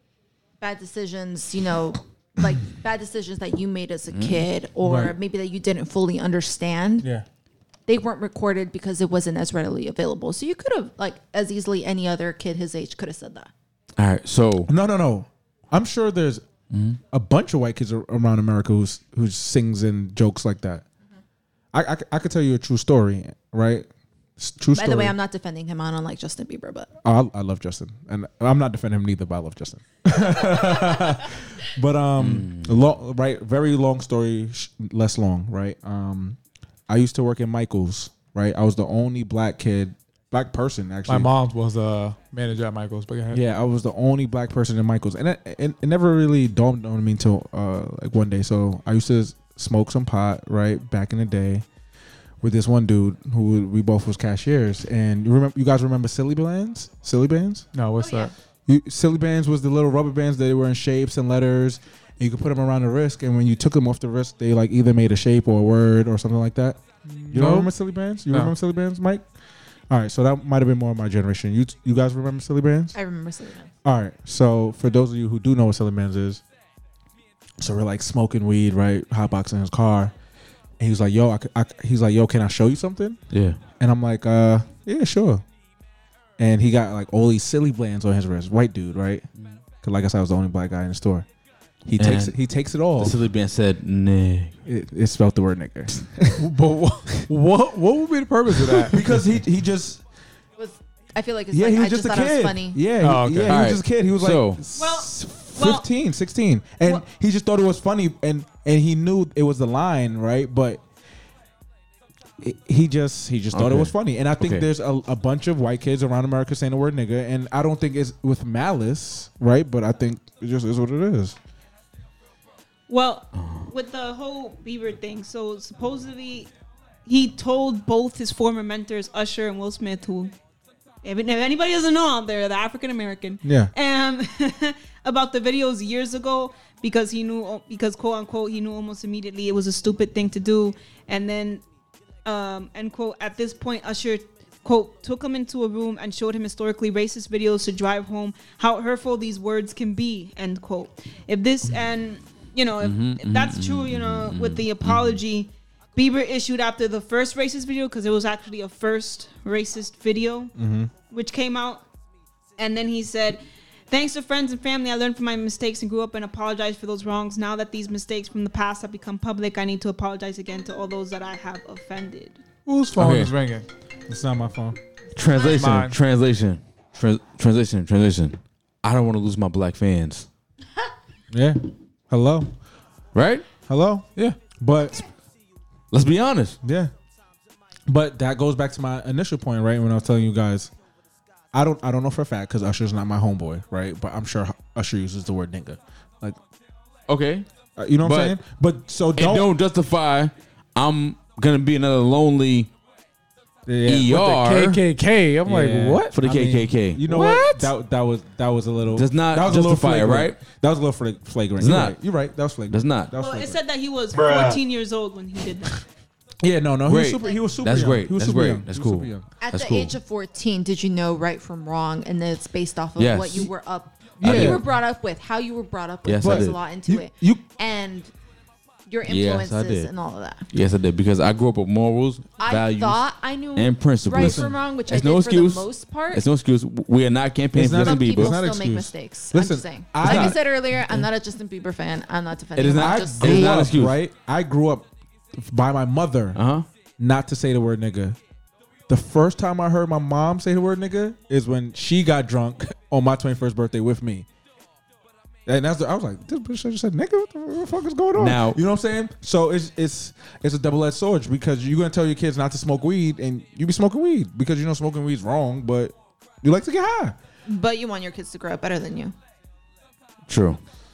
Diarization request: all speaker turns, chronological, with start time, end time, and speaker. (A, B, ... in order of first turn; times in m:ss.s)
0:00.6-0:07.1 A
0:04.1-0:04.4 B
0:04.8-0:05.2 C
0:07.9-0:13.5 A
0:14.0-0:14.7 B
0:14.7-0:16.4 C
0:16.7-0:17.0 B
0:17.1-0:20.8 C
0:21.7-0:25.1 C
0:24.7-0:26.9 A
0:27.0-0:41.3 C
0:32.2-0:32.8 B
0:41.1-0:43.4 D
0:43.3-0:51.6 C
0:52.4-0:57.6 C
0:57.7-0:58.3 D
0:58.0-0:58.3 A
0:58.7-1:06.8 C
1:07.0-1:07.7 D
1:07.3-1:09.2 C
1:09.9-1:12.9 C
1:12.9-1:13.7 A
1:13.8-1:16.4 C
1:17.6-1:20.1 C
1:20.8-1:23.2 C
1:23.3-1:23.6 B
1:23.8-1:25.4 C
1:26.4-1:29.2 C
1:29.8-1:31.2 C
1:31.8-1:33.2 C
1:32.0-1:32.3 B
1:33.0-1:34.5 B
1:34.6-1:36.5 C
1:36.4-1:39.0 D
1:38.5-1:40.0 C
1:40.6-1:42.8 A
1:41.5-1:50.8 C
1:43.0-1:43.6 D
1:43.5-1:44.6 B
1:44.8-1:45.8 E
1:52.4-2:01.4 C
1:53.5-1:54.6 B
2:02.9-2:06.5 E
2:03.4-2:03.7 B
2:07.0-2:10.3 E
2:11.0-2:21.6 E
2:13.4-2:13.7 C
2:22.2-2:40.5 E
2:32.8-2:35.2 B
2:40.6-2:40.9 C
2:41.1-2:41.8 E
2:42.6-2:52.4 E
2:52.6-2:53.7 D
2:53.0-2:53.3 B
2:54.1-2:54.8 C
2:55.1-3:00.3 B
2:55.4-2:56.0 D
3:01.3-3:02.5 C
3:03.1-3:03.4 B
3:03.7-3:05.0 C
3:05.9-3:06.6 B
3:06.6-3:06.9 C
3:07.9-3:10.7 C
3:11.5-3:16.4 C
3:17.1-3:17.5 B
3:17.8-3:19.5 C
3:18.0-3:18.4 B
3:19.1-3:22.7 B
3:23.6-3:24.2 C
3:23.8-3:24.8 B
3:24.1-3:26.1 D
3:25.4-3:33.6 C
3:26.1-3:27.0 B
3:27.0-3:27.7 D
3:29.0-3:30.4 B
3:31.6-3:32.0 B
3:32.7-3:33.1 B
3:33.1-3:35.8 E
3:34.1-3:34.5 C
3:36.4-3:39.2 C
3:36.9-3:39.9 B
3:39.4-3:48.1 A
3:43.0-3:43.5 B
3:44.2-3:44.6 C
3:44.2-3:44.6 B
3:46.0-3:46.6 B
3:46.2-3:47.4 C
3:48.9-3:50.4 A
3:49.1-3:49.9 B
3:50.5-3:53.0 B
3:52.4-3:56.2 A
3:53.5-3:58.4 B
3:54.1-3:54.5 C
3:57.5-4:00.4 C
3:57.8-4:03.7 A
4:00.0-4:00.4 B
4:02.6-4:04.0 B
4:02.7-4:06.4 C
4:06.3-4:06.6 B
4:07.0-4:08.2 C
4:08.9-4:14.2 C
4:15.4-4:27.2 C
4:18.2-4:18.6 B
4:27.4-4:29.1 A
4:30.3-4:30.6 B